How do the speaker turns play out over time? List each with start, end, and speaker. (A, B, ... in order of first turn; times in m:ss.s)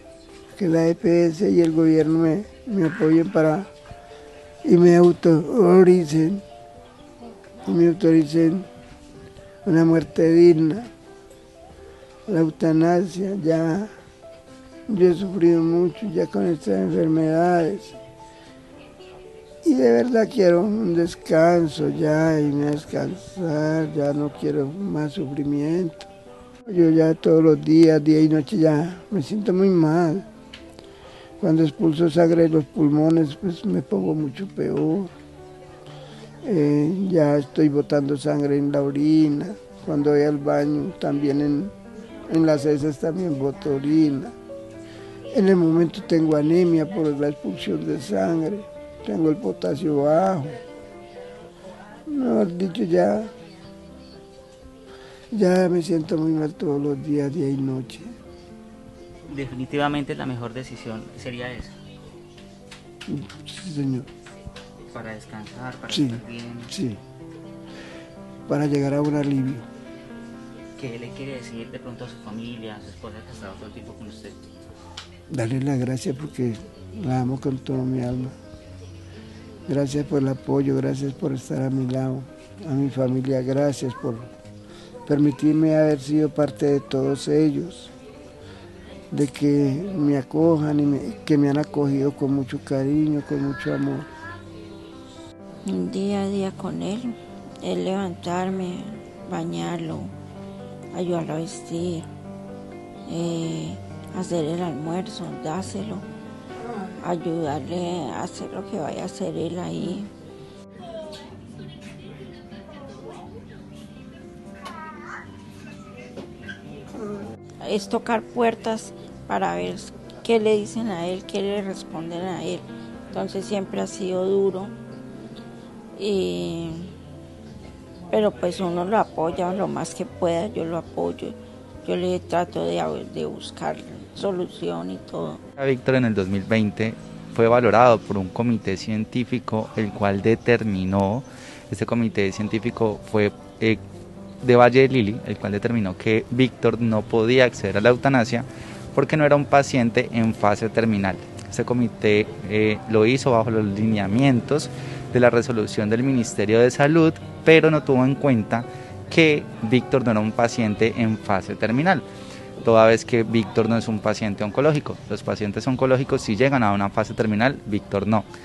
0:00.6-0:03.7 A
0:04.6-0:06.4 A
0:07.6-0:08.6 A
0:09.6-0:10.9 A
0:12.3-0:13.9 A
0:14.9-0:18.0 A
0:19.6-0:26.1 A
0:26.7-0:30.2 A
0:31.4-0:35.1 A
0:36.4-0:41.7 A
0:42.3-0:44.3 A
0:45.3-0:50.6 A
0:52.1-0:53.3 A
0:55.3-0:58.1 A
0:59.3-1:01.7 B
1:03.1-1:04.1 A
1:04.9-1:06.7 B
1:05.9-1:07.0 A
1:08.5-1:09.7 A
1:10.8-1:14.4 B
1:15.3-1:18.4 A
1:19.7-1:24.3 A
1:25.0-1:27.9 A
1:29.1-1:34.1 A
1:35.6-1:40.1 C
1:40.9-1:42.1 C
1:43.0-1:46.0 C
1:46.9-1:50.1 C
1:57.6-2:04.8 C
2:06.0-2:06.9 C
2:08.1-2:15.4 C
2:15.6-2:23.8 D
2:24.4-2:42.0 D
2:42.6-2:48.2 D